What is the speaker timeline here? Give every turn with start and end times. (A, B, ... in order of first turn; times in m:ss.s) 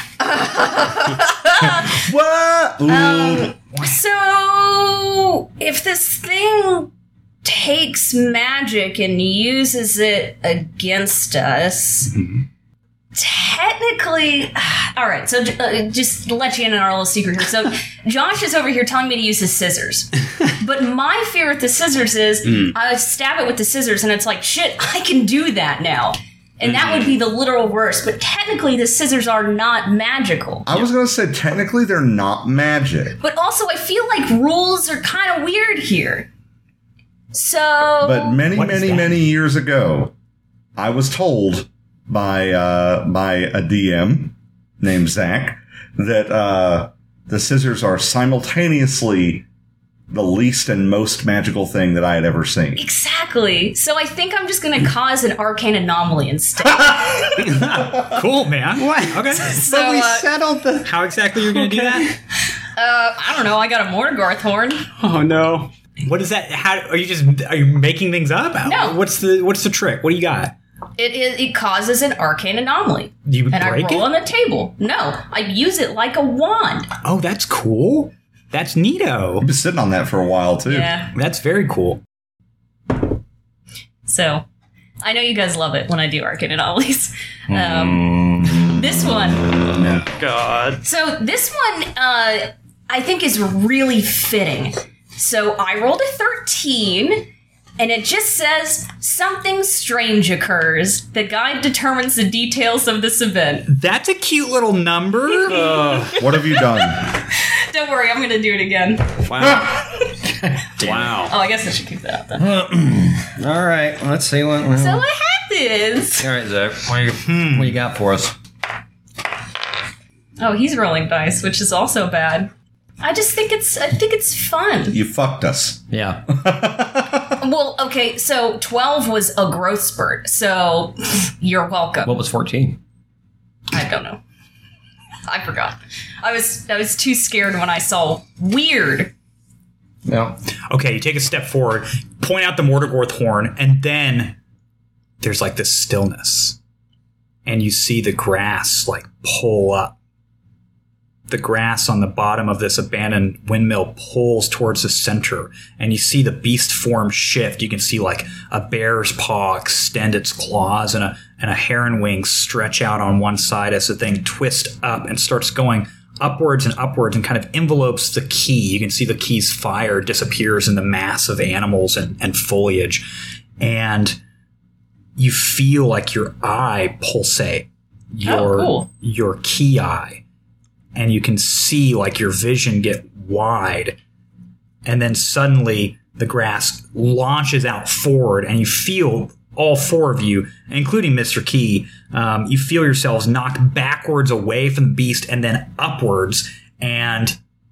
0:00.2-0:02.0 A
0:01.9-0:03.5 B
0:02.9-0:06.9 A
0:07.4-0:12.2 A
0:13.1-0:30.7 A
0:26.6-0:27.2 C
0:30.6-0:33.2 B
0:33.2-0:36.3 A
0:37.3-0:38.4 A
0:38.0-0:40.1 B
0:38.5-0:39.2 D
0:40.8-0:49.4 B
0:50.1-0:52.8 B
0:52.8-0:57.8 A
0:58.0-0:59.7 D
0:59.3-1:00.3 A
1:00.8-1:02.1 D
1:01.6-1:02.0 C
1:02.8-1:04.9 A
1:05.0-1:05.7 C
1:06.0-1:10.5 D
1:08.6-1:09.0 A
1:11.0-1:16.9 A
1:13.2-1:14.1 D
1:17.0-1:19.5 D
1:19.4-1:21.0 B
1:20.7-1:21.1 A
1:21.1-1:22.0 D
1:24.1-1:24.4 A
1:25.0-1:29.7 A
1:27.5-1:29.1 E
1:29.7-1:30.1 B
1:30.2-1:30.8 C
1:30.8-1:43.7 A
1:43.7-1:45.7 D
1:45.5-1:50.3 A
1:45.6-1:46.1 E
1:46.1-1:47.1 B
1:49.2-1:49.7 C
1:50.8-1:51.3 C
1:50.8-1:51.1 E
1:50.8-1:52.4 A
1:52.4-1:55.0 E
1:54.7-1:56.3 A
1:56.2-1:58.4 E
1:57.2-1:57.7 D
2:00.4-2:05.0 A
2:04.9-2:07.4 B
2:05.9-2:06.3 E
2:07.4-2:12.2 A
2:12.0-2:12.8 E
2:13.7-2:14.2 A
2:15.3-2:19.1 A
2:20.0-2:20.4 E
2:20.7-2:24.4 D
2:25.2-2:26.6 D
2:27.4-2:29.9 D
2:31.3-2:53.1 D
2:53.6-2:54.2 D
2:55.2-3:00.2 D
2:58.2-2:58.9 A
3:00.9-3:04.0 D
3:04.8-3:17.4 D